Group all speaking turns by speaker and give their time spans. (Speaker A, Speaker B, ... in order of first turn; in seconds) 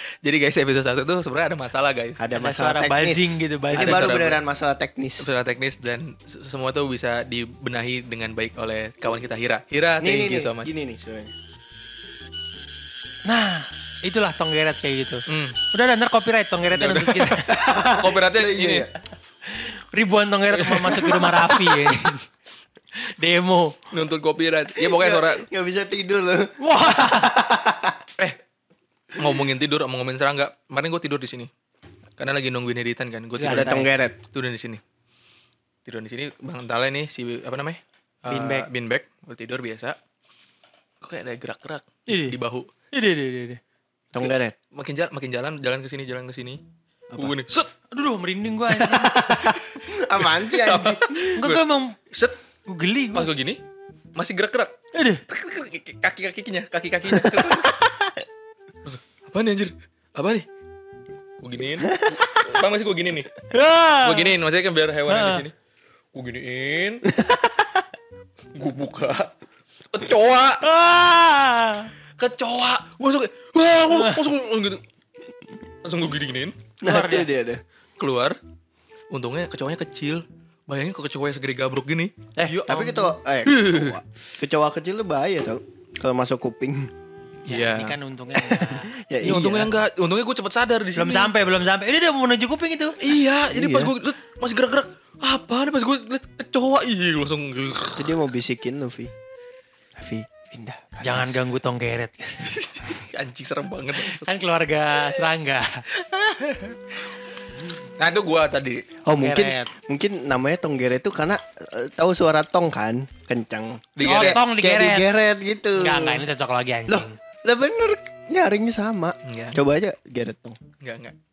Speaker A: 0.2-2.2, 3.8-4.4, 5.2-10.7, 15.3-15.6, 16.7-18.9, 20.5-21.5, 23.9-25.5, 29.2-31.5, 32.2-34.8, 35.9-40.0, 41.0-42.7, 44.1-46.6, 47.2-47.7, 49.2-52.4, 53.1-53.6, 54.2-54.7, 55.3-57.8, 58.9-60.5, 61.4-63.3, 64.0-65.5, 66.1-67.1, 68.5-69.3, 69.9-70.6, 72.2-74.8, 75.8-76.6, 78.0-78.4, 79.1-84.0, 87.5-88.7, 89.2-91.3, 93.0-98.2, 102.5-104.3, 105.9-107.1, 108.0-108.9, 114.0-114.4, 119.2-119.6, 120.8-121.2
Speaker B: 2.2-5.3, 10.0-11.3, 17.5-18.9, 24.8-28.0, 33.5-34.2, 44.1-44.5, 49.0-51.5, 57.1-58.0, 61.8-62.3, 67.1-67.8, 76.8-77.6, 82.4-86.9, 88.9-89.8, 93.5-93.9, 98.0-99.1, 100.0-101.4, 109.1-116.2, 116.9-120.6
Speaker C: 2.4-4.1, 13.3-17.5, 19.5-22.3, 23.0-23.9, 26.6-27.3, 33.4-33.9, 38.3-38.7, 42.1-42.4, 42.9-43.6, 47.9-49.2, 51.4-52.0, 52.7-53.3, 55.0-55.2, 63.5-64.3, 65.1-65.5, 70.6-71.9, 73.9-74.2, 76.8-77.3, 87.5-88.9, 91.0-93.0, 101.0-102.8, 104.2-105.9, 109.2-109.7, 114.0-115.1, 115.8-117.2